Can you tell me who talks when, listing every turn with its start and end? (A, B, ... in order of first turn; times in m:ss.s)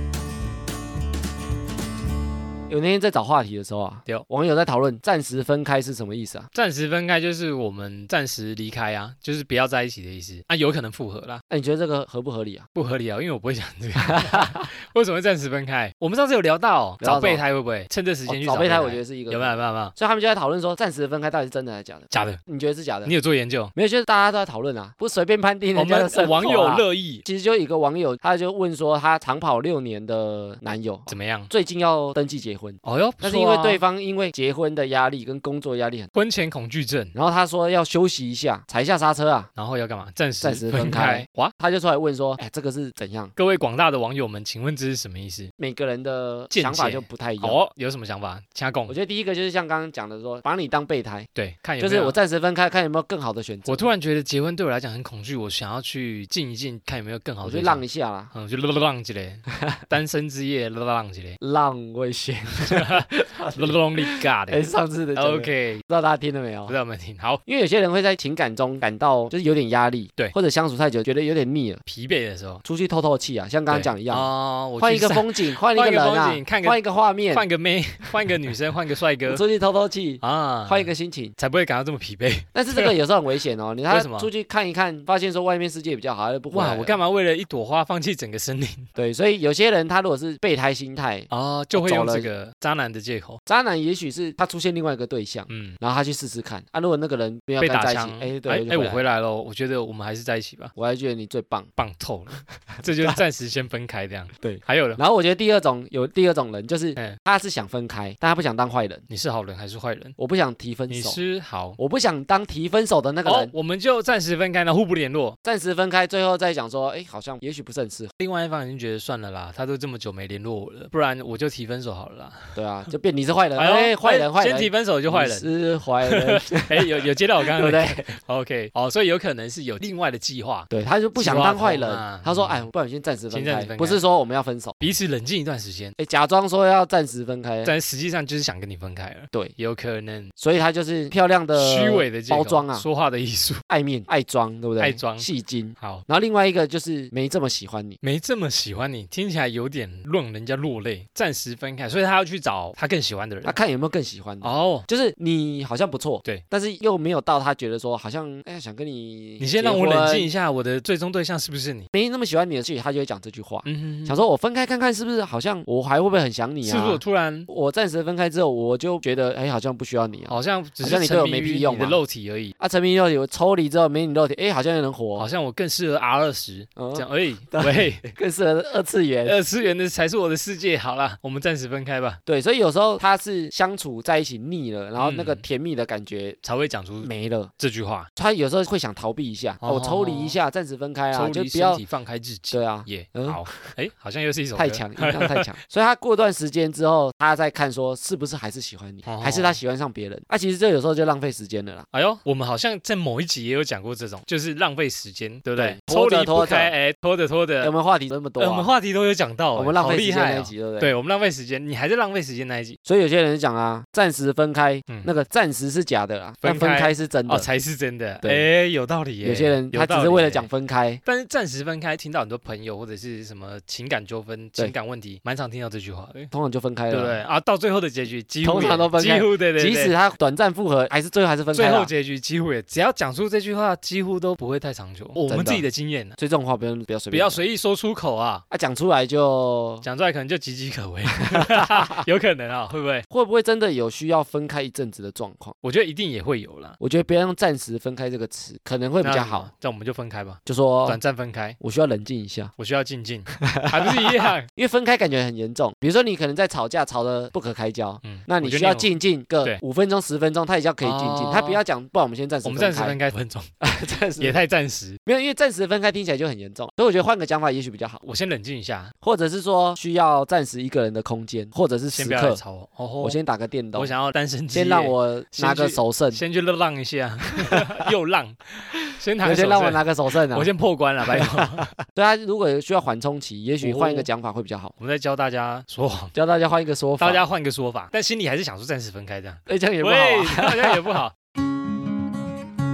0:02.7-0:06.5 A
0:06.5-0:11.4 B
0:11.5-0:12.7 A
0:12.7-0:19.9 B
0:14.1-0:14.6 A
0:17.0-0:17.4 A
0:18.3-0:23.1 A
0:22.1-0:22.4 B
0:23.0-0:23.7 B
0:23.8-0:36.1 A
0:25.8-0:27.2 B
0:31.1-0:31.5 B
0:32.8-0:33.8 B
0:36.2-0:37.1 B
0:37.1-0:39.5 A
0:39.6-0:41.5 B
0:40.4-0:43.3 A
0:43.4-0:45.5 B
0:45.6-0:47.6 A
0:46.5-0:49.0 B
0:48.9-0:51.3 A
0:51.4-0:52.2 B
0:51.8-0:53.9 A
0:53.7-1:01.4 B
0:57.4-0:58.3 A
1:01.4-1:06.8 A
1:02.7-1:05.8 B
1:06.7-1:07.4 B
1:07.5-1:11.8 A
1:11.9-1:12.6 B
1:12.6-1:17.4 A
1:13.7-1:16.8 B
1:17.3-1:19.4 B
1:19.3-1:21.3 A
1:20.2-1:23.0 B
1:22.5-1:27.0 A
1:23.9-1:24.3 B
1:26.5-1:28.9 B
1:29.0-1:32.3 A
1:31.3-1:33.4 B
1:33.5-1:39.0 A
1:35.5-1:35.8 B
1:37.6-1:40.7 B
1:40.8-1:41.7 A
1:41.8-1:45.0 B
1:44.4-1:49.0 A
1:49.1-1:50.2 B
1:50.2-1:51.2 A
1:50.9-1:51.8 B
1:51.8-1:53.5 A
1:53.3-1:55.4 B
1:55.4-1:58.1 A
1:58.2-2:02.6 B
2:02.6-2:08.1 A
2:03.6-2:05.5 B
2:06.1-2:12.7 B
2:10.7-2:14.8 A
2:13.3-2:14.0 B
2:14.8-2:16.0 B
2:16.0-2:17.7 A
2:17.6-2:20.3 B
2:20.4-2:22.9 A
2:21.6-2:23.6 B
2:23.7-2:28.0 A
2:24.8-2:25.3 B
2:25.8-2:26.0 B
2:28.0-2:33.6 B
2:33.4-2:40.3 A
2:34.4-2:34.9 B
2:39.4-2:41.9 B
2:41.9-2:52.0 A
2:43.6-2:44.2 B
2:46.6-2:47.5 B
2:50.3-2:52.5 B
2:52.6-2:55.3 A
2:55.2-2:58.0 B
2:56.8-2:59.4 A
2:59.2-3:02.2 B
3:02.3-3:06.4 A
3:05.0-3:05.4 B
3:06.4-3:08.1 B
3:07.0-3:07.5 A
3:08.2-3:11.8 A
3:09.6-3:10.4 B
3:11.1-3:15.5 B
3:12.5-3:13.5 A
3:14.6-3:21.9 A
3:19.0-3:19.6 B
3:21.9-3:27.7 B
3:25.6-3:26.7 A
3:27.6-3:28.7 A
3:28.4-3:32.8 B
3:29.6-3:30.9 A
3:32.9-3:37.5 A
3:36.4-3:40.5 B
3:38.2-3:38.5 A
3:39.2-3:41.0 A
3:41.0-3:46.3 B
3:46.3-3:47.2 A
3:46.9-3:50.0 B
3:48.4-3:51.9 A
3:51.5-3:56.2 B
3:55.3-3:55.6 A
3:56.2-3:57.4 A
3:57.1-3:58.4 B
3:58.5-3:59.8 A
3:59.8-4:03.1 B
4:01.3-4:02.0 A
4:03.1-4:05.6 A
4:05.6-4:06.8 B
4:06.8-4:09.5 A
4:09.0-4:11.6 B
4:10.5-4:11.0 A
4:11.6-4:12.5 A
4:12.6-4:14.5 B
4:13.4-4:23.0 A
4:18.0-4:18.9 B
4:20.8-4:21.6 B
4:22.4-4:23.5 B
4:23.6-4:24.4 A
4:24.2-4:25.0 B
4:25.1-4:28.0 A
4:28.0-4:28.9 B
4:29.0-4:32.4 A
4:31.9-4:33.2 B
4:33.0-4:33.9 A
4:33.7-4:41.7 B
4:34.5-4:36.2 A
4:39.2-4:40.5 A
4:41.1-4:44.7 A
4:43.6-4:44.1 B
4:44.8-4:46.2 B
4:46.1-4:47.2 A
4:47.0-4:51.1 B
4:49.5-4:51.0 A